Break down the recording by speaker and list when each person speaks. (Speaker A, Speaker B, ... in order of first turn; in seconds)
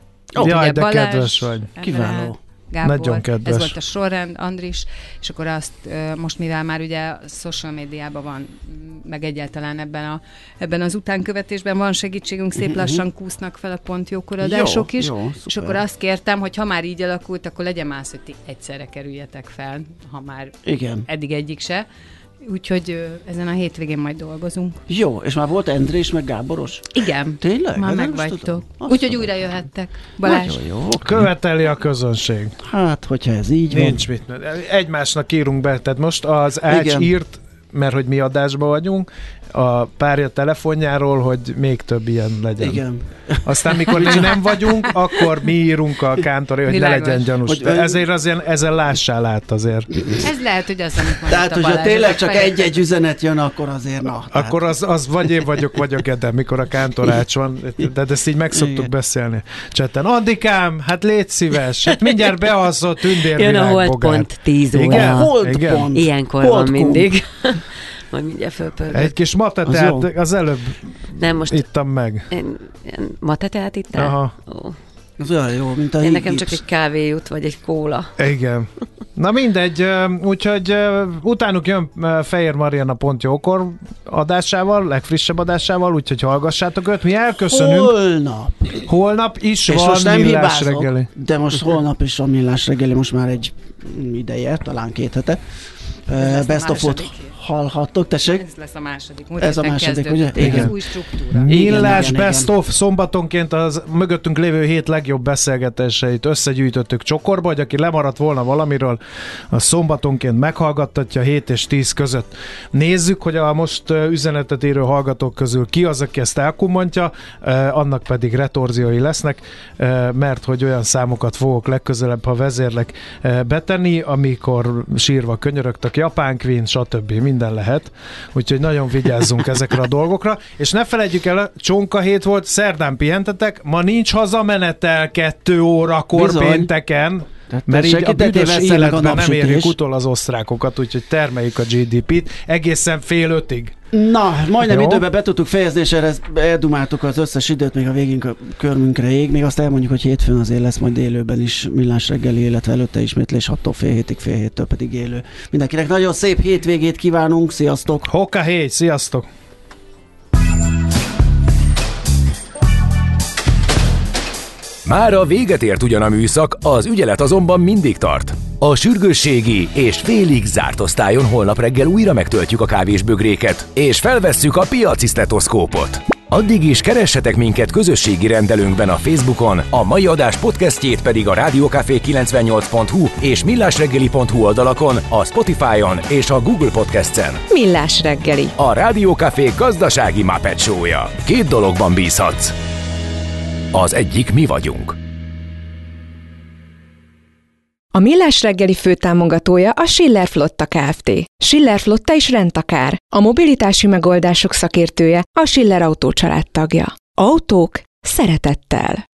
Speaker A: 0.3-21.9, 22.4-24.8, 26.9-30.6, 44.0-44.7, 46.7-47.3, 50.2-52.8, 96.1-97.4, 98.3-102.1
Speaker B: 0.4-1.7, 2.8-3.8, 31.0-32.6, 33.7-42.8, 43.5-49.9, 54.3-65.9, 68.9-72.3, 73.9-74.3, 78.2-88.0, 88.8-91.1, 100.4-100.7, 101.3-109.0, 109.5-143.8, 144.6-145.0, 158.1-159.3
Speaker C: 1.8-2.4, 12.6-13.0, 14.4-15.8, 20.6-21.1, 24.9-29.2, 30.2-31.3, 32.6-34.0, 36.7-37.1, 42.6-44.3, 47.5-48.1, 51.3-54.6, 58.5-58.9, 64.9-67.1, 69.7-70.1, 75.2-76.6, 87.5-88.9, 89.7-95.4, 96.1-98.4, 99.4-100.7, 101.5-102.5, 136.1-136.7, 137.5-139.8, 143.9-158.1
Speaker D: 63.3-69.2, 71.2-71.7, 72.3-74.8, 76.0-78.1
Speaker E: 164.9-187.4, 188.6-192.6, 193.7-195.0
Speaker F: 187.5-188.5, 197.9-209.0